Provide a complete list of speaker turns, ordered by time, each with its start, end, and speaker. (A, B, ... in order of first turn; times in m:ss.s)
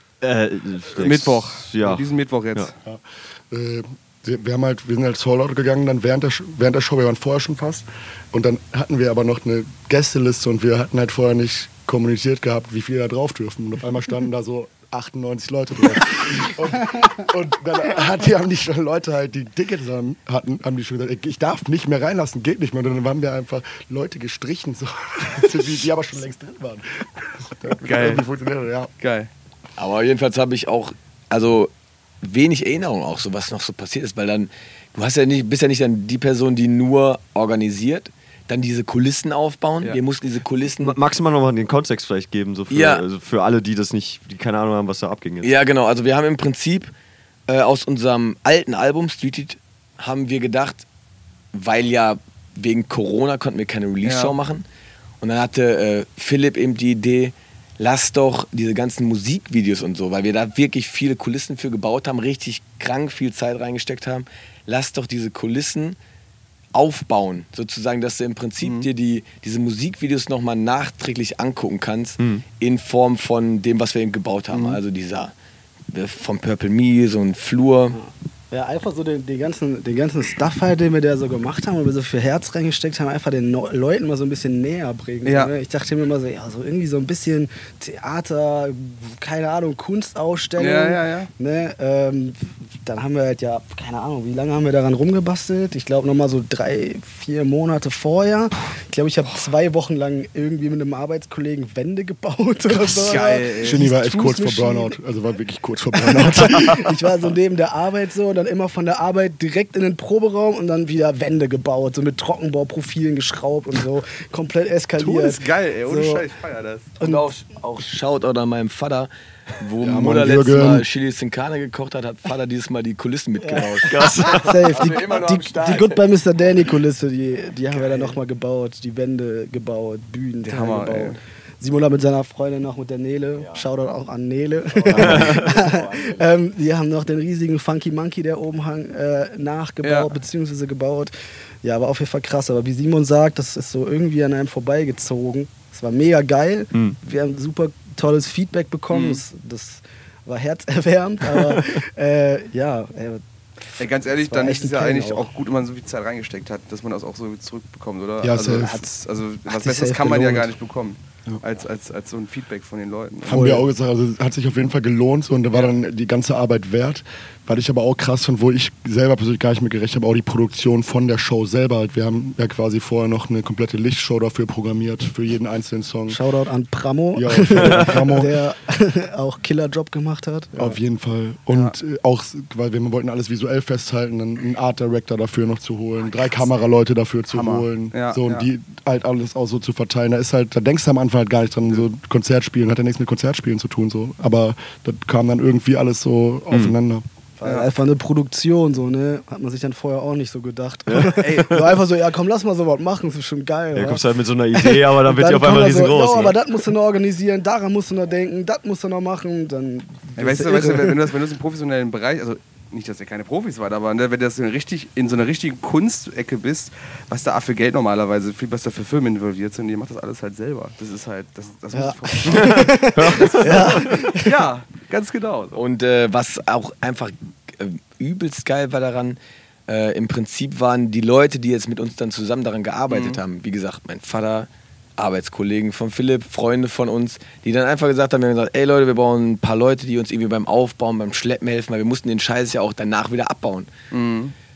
0:00.2-0:02.7 A
0:01.0-0:02.7 B
0:02.8-0:28.9 C
0:27.8-0:28.2 B
0:29.0-0:29.3 B
0:29.8-0:31.7 D
0:32.2-0:41.0 D
0:40.8-0:45.5 A
0:42.7-0:43.0 D
0:45.4-0:46.9 D
0:47.5-0:50.8 D
0:51.5-0:54.6 D
0:54.0-0:54.3 B
0:55.2-1:06.0 D
1:06.7-1:15.3 D
1:08.6-1:08.9 B
1:12.2-1:12.4 A
1:14.5-1:14.8 B
1:15.9-1:18.0 D
1:17.9-1:44.9 E
1:25.2-1:25.5 B
1:30.6-1:31.3 B
1:42.8-1:46.9 C
1:43.0-1:43.9 B
1:45.9-1:56.2 E
1:55.0-1:57.0 B
1:57.0-1:57.2 E
1:57.0-2:06.0 D
1:59.8-2:00.9 C
2:03.4-2:21.1 E
2:03.8-2:04.7 A
2:10.4-2:11.2 B
2:14.8-2:16.2 D
2:15.0-2:15.4 A
2:19.8-2:20.1 B
2:21.6-2:33.2 E
2:28.9-2:29.2 B
2:33.8-2:35.3 E
2:33.8-2:43.4 B
2:38.2-2:38.8 C
2:38.5-2:38.8 E
2:39.4-2:40.5 E
2:43.3-2:56.2 C
2:43.3-2:43.6 E
2:56.1-3:00.7 E
2:57.1-2:58.3 C
3:00.6-3:17.0 C
3:01.5-3:01.8 B
3:07.3-3:08.5 B
3:16.5-3:16.8 A
3:17.4-3:31.0 E
3:17.4-3:17.7 B
3:20.9-3:21.6 A
3:21.2-3:21.6 B
3:23.7-3:26.4 A
3:30.2-3:45.6 B
3:41.7-3:44.4 E
3:42.3-3:43.7 A
3:45.6-3:49.2 D
3:49.7-4:03.7 D
3:52.9-3:53.2 B
4:03.9-4:04.3 B